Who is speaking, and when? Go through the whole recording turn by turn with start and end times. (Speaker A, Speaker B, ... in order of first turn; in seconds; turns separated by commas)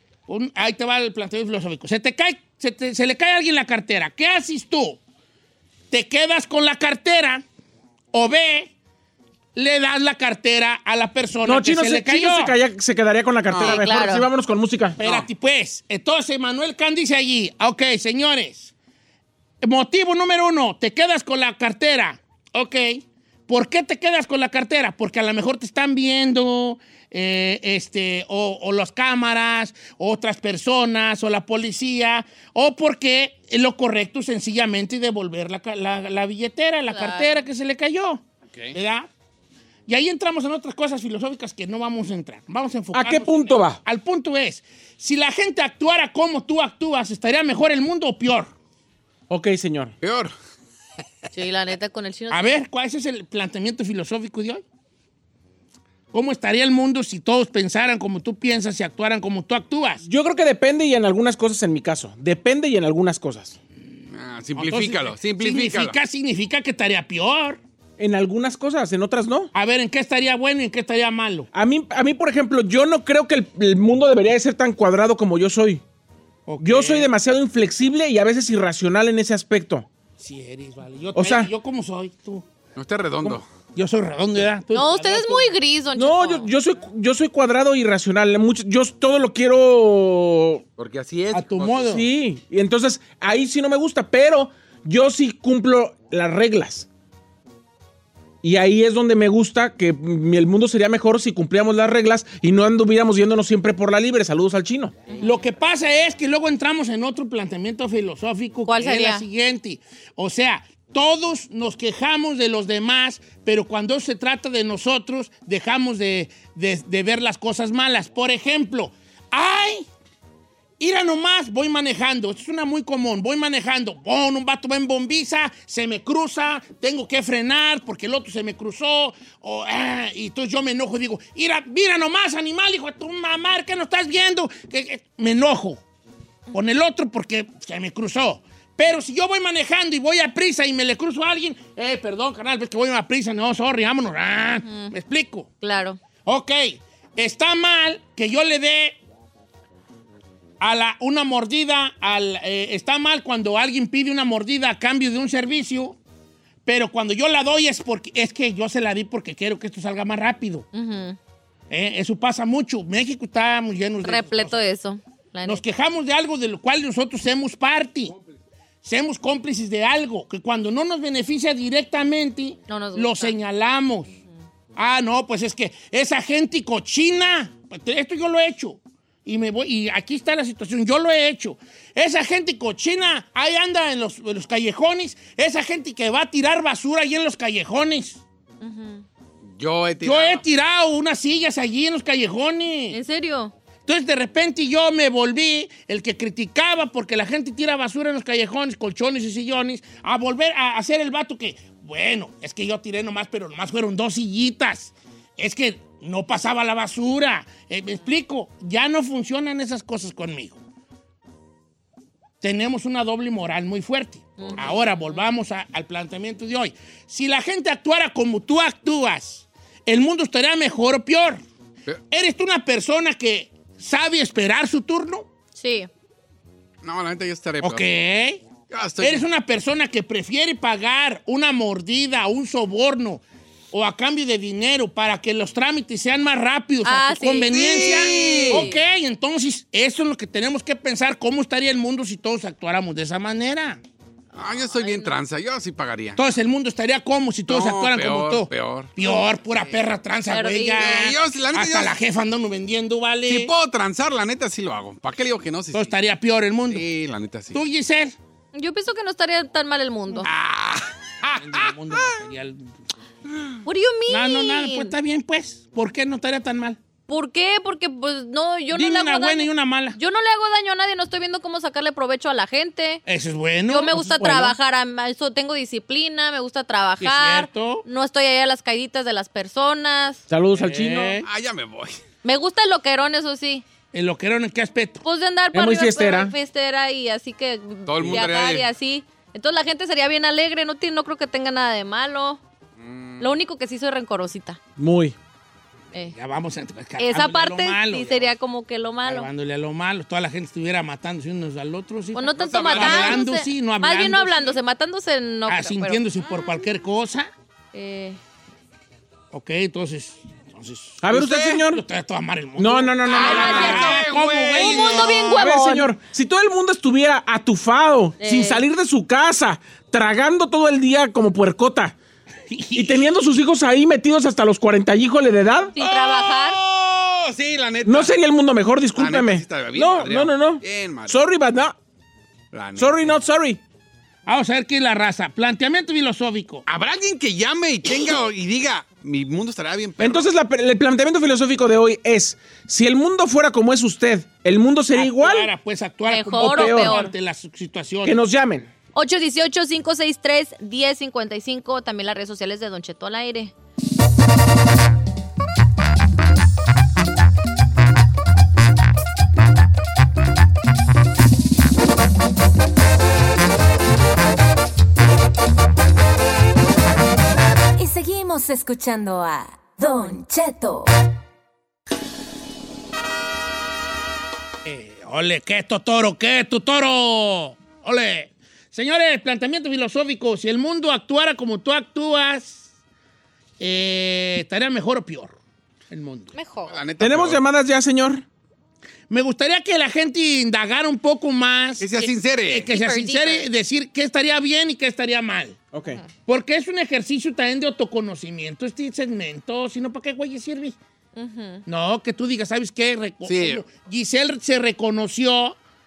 Speaker A: 0.3-5.0, Speaker A: 5.9-7.4, Speaker A: 8.1-8.7, Speaker A: 9.5-12.6, Speaker B: 11.4-15.1, Speaker C: 13.5-13.9, Speaker D: 13.6-14.2, Speaker A: 15.0-18.7, Speaker A: 19.6-39.1, Speaker D: 36.9-37.5, Speaker A: 39.9-48.5, Speaker B: 42.9-43.8, Speaker B: 49.3-49.9, Speaker C: 50.0-50.3, Speaker D: 51.3-52.6, Speaker A: 52.3-54.6, Speaker A: 56.1-60.0, Speaker B: 60.0-63.6, Speaker C: 64.1-66.0, Speaker A: 64.5-67.6, Speaker B: 68.0-69.5, Speaker A: 69.5-71.5, Speaker B: 71.5-75.8, Speaker A: 76.5-77.1, Speaker B: 76.6-79.8, Speaker A: 80.2-82.5, Speaker B: 81.1-81.5, Speaker C: 82.8-83.5, Speaker A: 83.3-85.5, Speaker D: 84.7-86.5, Speaker B: 85.9-90.6, Speaker C: 90.8-91.8, Speaker A: 91.3-92.1, Speaker B: 91.7-96.9, Speaker B: 98.4-104.9, Speaker D: 105.1-105.3, Speaker A: 105.2-119.9, Speaker D: 108.7-109.3, Speaker A: 120.8-135.8, Speaker A: 136.5-145.5, Speaker D: 144.7-144.9, Speaker D: 145.6-146.0, Speaker A: 146.2-149.0, Speaker A: 150.6-156.0, Speaker A: 156.7-160.7, Speaker D: 160.7-161.2, Speaker A: 161.7-164.6, Speaker D: 164.0-165.6, Speaker A: 165.4-168.1, Speaker A: 168.8-174.2, Speaker D: 172.7-173.4, Speaker A: 174.8-188.2, Speaker D: 188.6-189.0, Speaker C: 189.5-190.4, Speaker A: 190.0-193.0, Speaker D: 192.9-193.5, Speaker A: 193.8-210.6, Speaker A: 212.4-221.4, Speaker D: 214.4-215.2, Speaker A: 222.1-225.3, Speaker D: 225.6-225.9, Speaker C: 226.8-227.9, Speaker A: 227.6-228.4, Speaker C: 228.7-229.2, Speaker A: 229.0-243.8, Speaker D: 236.8-238.8, Speaker C: 237.5-238.7, Speaker C: 244.3-246.2, Speaker D: 244.4-245.1, Speaker A: 246.2-253.5, Speaker C: 247.5-249.7, Speaker D: 250.3-250.9, Speaker C: 250.8-252.0, Speaker C: 253.3-255.9, Speaker A: 255.7-256.9, Speaker C: 256.7-257.6, Speaker A: 257.5-258.1, Speaker D: 258.5-260.3, Speaker C: 260.2-262.2, Speaker A: 261.3-262.7, Speaker D: 263.6-264.9, Speaker A: 264.1-266.8, Speaker D: 267.1-273.0, Speaker A: 268.7-270.0, Speaker A: 273.1-274.5, Speaker D: 273.7-280.2, Speaker A: 277.0-277.8, Speaker B: 280.3-281.2, Speaker A: 280.5-281.2, Speaker C: 281.2-282.0, Speaker D: 282.2-283.6, Speaker A: 283.9-285.0, Speaker D: 285.0-292.4, Speaker B: 285.5-286.3, Speaker C: 287.9-288.7, Speaker C: 292.8-293.3, Speaker D: 293.2-294.6, Speaker B: 294.8-295.1, Speaker A: 296.1-298.3, Speaker D: 297.0-299.3, Speaker A: 299.0-304.6, Speaker D: 302.1-306.4, Speaker C: 302.4-303.2, Speaker A: 305.5-307.3, Speaker D: 307.7-308.2, Speaker A: 309.3-315.2, Speaker B: 311.0-311.8, Speaker B: 312.6-313.9, Speaker D: 313.1-315.9, Speaker C: 313.2-315.1, Speaker B: 315.3-321.9, Speaker D: 318.2-318.6, Speaker A: 322.5-323.1, Speaker B: 322.8-325.7, Speaker D: 325.7-326.6, Speaker C: 325.8-328.1, Speaker B: 327.8-331.7, Speaker C: 328.9-331.2, Speaker C: 332.5-333.1, Speaker B: 332.8-333.6, Speaker A: 334.2-336.6, Speaker C: 336.6-340.2, Speaker B: 340.0-345.5, Speaker A: 344.9-348.2, Speaker D: 346.1-347.1, Speaker B: 346.4-346.9, Speaker B: 348.0-348.7, Speaker D: 348.9-353.5, Speaker E: 367.8-370.9, Speaker A: 374.6-382.7, Speaker A: 383.6-385.4, Speaker A: 385.9-386.3, Speaker D: 386.3-386.7, Speaker C: 386.7-387.4, Speaker B: 387.0-388.2, Speaker A: 389.1-395.6, Speaker C: 391.8-392.7, Speaker D: 392.7-393.5, Speaker B: 395.7-396.0, Speaker A: 396.2-400.8, Speaker D: 401.1-401.6, Speaker A: 401.6-405.6, Speaker C: 403.2-403.6